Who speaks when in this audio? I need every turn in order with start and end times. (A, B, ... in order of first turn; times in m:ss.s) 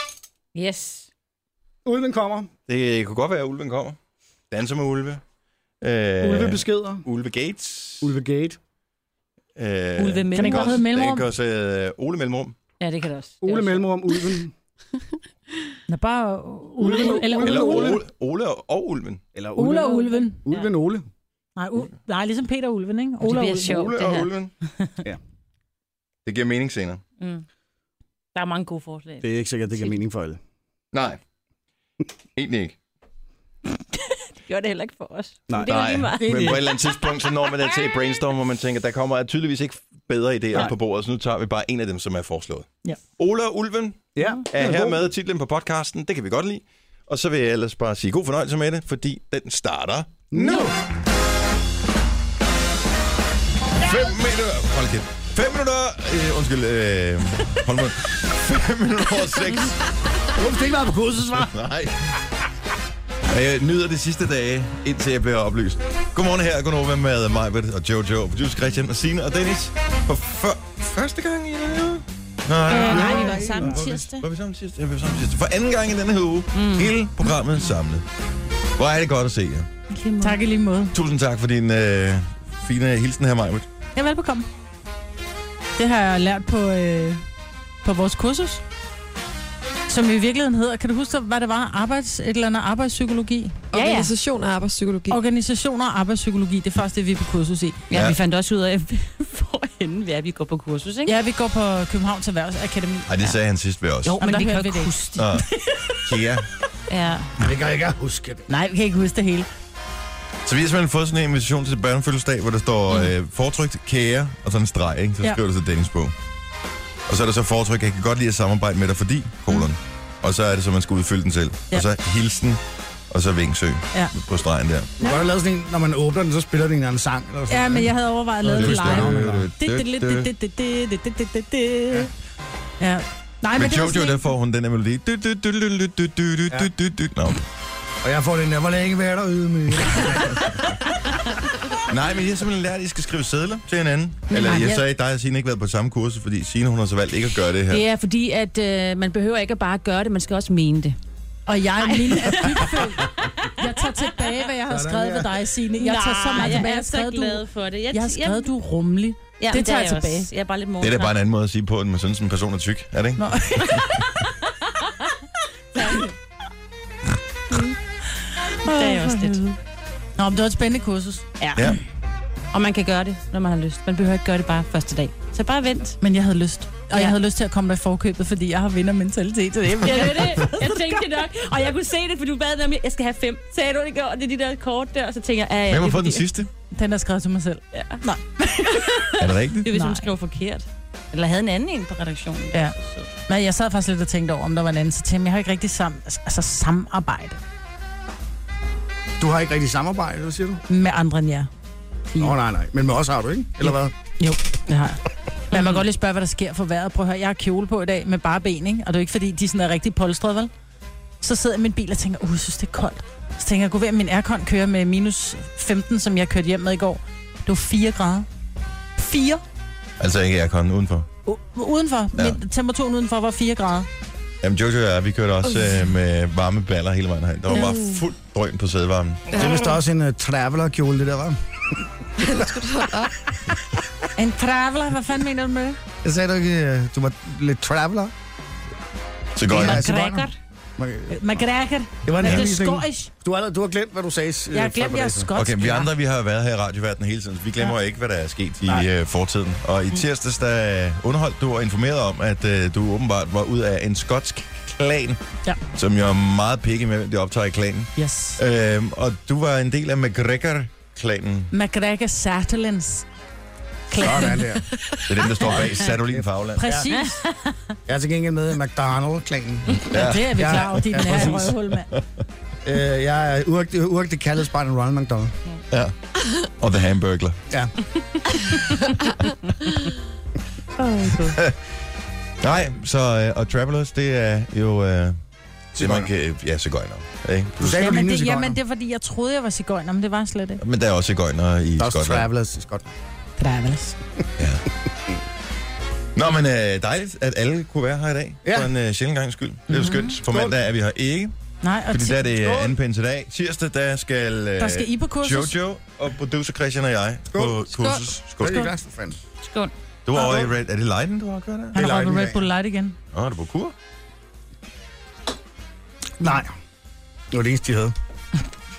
0:00.6-0:01.1 A
0:01.8-0:02.5 B
0:02.7-0:04.0 C
0:04.5-0:05.2 C
0:05.8-0:08.1 C
0:06.2-0:07.0 B
0:08.0-0:08.6 B
0:09.6-0:12.6 C
0:10.0-0:10.8 A
0:10.3-0:11.3 D
0:12.8-0:14.2 A
0:13.4-0:14.5 B
0:15.9-0:18.0 D
0:16.8-0:18.0 B
0:17.4-0:19.2 C
0:19.3-0:21.1 B
0:19.6-0:20.4 D
0:19.8-0:20.7 A
0:21.6-0:23.8 D
0:23.2-0:24.3 A
0:23.6-0:24.5 C
0:26.2-0:27.0 C
0:28.3-0:29.3 A
0:29.2-0:30.4 B
0:30.9-0:31.2 C
0:32.4-0:32.7 C
0:33.9-0:37.2 A
0:35.5-0:36.6 B
0:35.6-0:50.7 C
0:36.3-0:36.6 D
0:44.2-0:45.1 B
0:50.3-0:50.7 B
0:53.8-0:59.8 C
1:00.4-1:01.5 B
1:01.3-1:02.2 C
1:03.3-1:18.0 C
1:12.7-1:14.2 A
1:12.7-1:13.8 D
1:16.5-1:16.9 A
1:18.8-1:19.7 C
1:19.9-1:20.4 A
1:20.2-1:20.9 D
1:20.9-1:23.7 C
1:24.0-1:24.5 D
1:25.8-1:27.2 D
1:27.8-1:28.6 D
1:29.9-1:33.6 D
1:33.7-1:35.2 E
1:33.7-1:34.1 A
1:35.1-1:37.8 D
1:37.9-1:41.1 A
1:41.1-1:43.1 D
1:43.1-1:44.2 C
1:44.0-1:45.4 A
1:44.2-1:44.9 D
1:45.2-1:45.5 C
1:46.0-1:46.5 C
1:46.9-1:47.3 A
1:47.4-1:48.5 B
1:48.5-1:49.5 D
1:50.4-1:56.1 C
1:57.1-2:04.9 C
2:05.0-2:09.5 B
2:05.0-2:05.3 D
2:07.5-2:12.1 D
2:08.5-2:10.3 C
2:12.8-2:14.2 D
2:13.6-2:17.4 C
2:18.0-2:20.8 B
2:21.9-2:27.8 C
2:24.3-2:24.8 D
2:27.7-2:31.0 A
2:31.5-2:40.3 D
2:31.8-2:34.2 A
2:34.7-2:35.3 B
2:35.8-2:38.5 A
2:39.4-2:41.2 A
2:40.8-2:43.8 C
2:43.2-2:44.0 D
2:45.7-2:46.1 A
2:48.5-2:49.5 D
2:48.6-2:49.4 A
2:50.2-2:51.6 D
2:51.4-2:51.8 A
2:52.5-2:56.0 A
2:56.0-3:01.0 D
2:56.9-2:57.2 A
2:59.8-3:06.2 A
3:05.7-3:06.5 C
3:06.7-3:10.0 D
3:07.7-3:08.0 A
3:08.7-3:13.1 A
3:09.2-3:09.7 C
3:13.3-3:17.4 D
3:19.2-3:20.6 B
3:20.7-3:21.5 D
3:22.1-3:22.4 D
3:22.2-3:23.9 B
3:23.6-3:30.5 D
3:25.5-3:25.8 A
3:31.2-3:38.2 D
3:39.0-3:39.4 D
3:40.0-3:41.1 C
3:41.2-3:43.9 D
3:44.4-3:49.5 C
3:47.5-3:48.0 E
3:49.3-3:49.7 E
3:49.3-3:51.8 B
3:52.2-3:53.1 E
3:54.2-3:55.8 D
3:56.0-3:58.1 B
3:59.4-3:59.9 C
3:59.5-4:00.4 A
3:59.5-4:01.2 B
4:01.1-4:03.1 D
4:02.0-4:05.3 B
4:04.5-4:05.9 D
4:05.3-4:15.2 C
4:15.7-4:21.5 C
4:18.0-4:18.4 D
4:21.5-4:23.1 D
4:23.9-4:24.4 D
4:24.0-4:24.6 B
4:25.1-4:26.6 C
4:25.3-4:26.9 B
4:26.6-4:27.2 D
4:27.9-4:31.6 B
4:29.8-4:32.0 C
4:29.9-4:31.9 D
4:32.6-4:35.4 B
4:36.6-4:37.4 C
4:40.8-4:41.4 D
4:42.4-4:45.2 C
4:45.8-4:46.1 B
4:45.8-4:47.8 C
4:47.6-4:48.6 B
4:47.6-4:50.6 D
4:50.6-4:52.2 C
4:51.8-4:52.9 B
4:53.4-4:54.0 D
4:54.4-4:54.6 C
4:56.2-5:01.3 C
4:58.4-4:58.7 B
4:59.7-5:00.1 D
5:00.2-5:00.6 B
5:01.6-5:02.2 D
5:01.9-5:08.7 C
5:02.2-5:02.8 B
5:04.6-5:05.5 D
5:07.3-5:09.2 B
5:08.4-5:08.7 D
5:09.4-5:09.7 A
5:10.1-5:11.8 C
5:10.1-5:10.5 D
5:11.7-5:12.5 B
5:11.7-5:13.0 D
5:13.1-5:13.7 C
5:16.2-5:16.5 B
5:17.3-5:17.9 B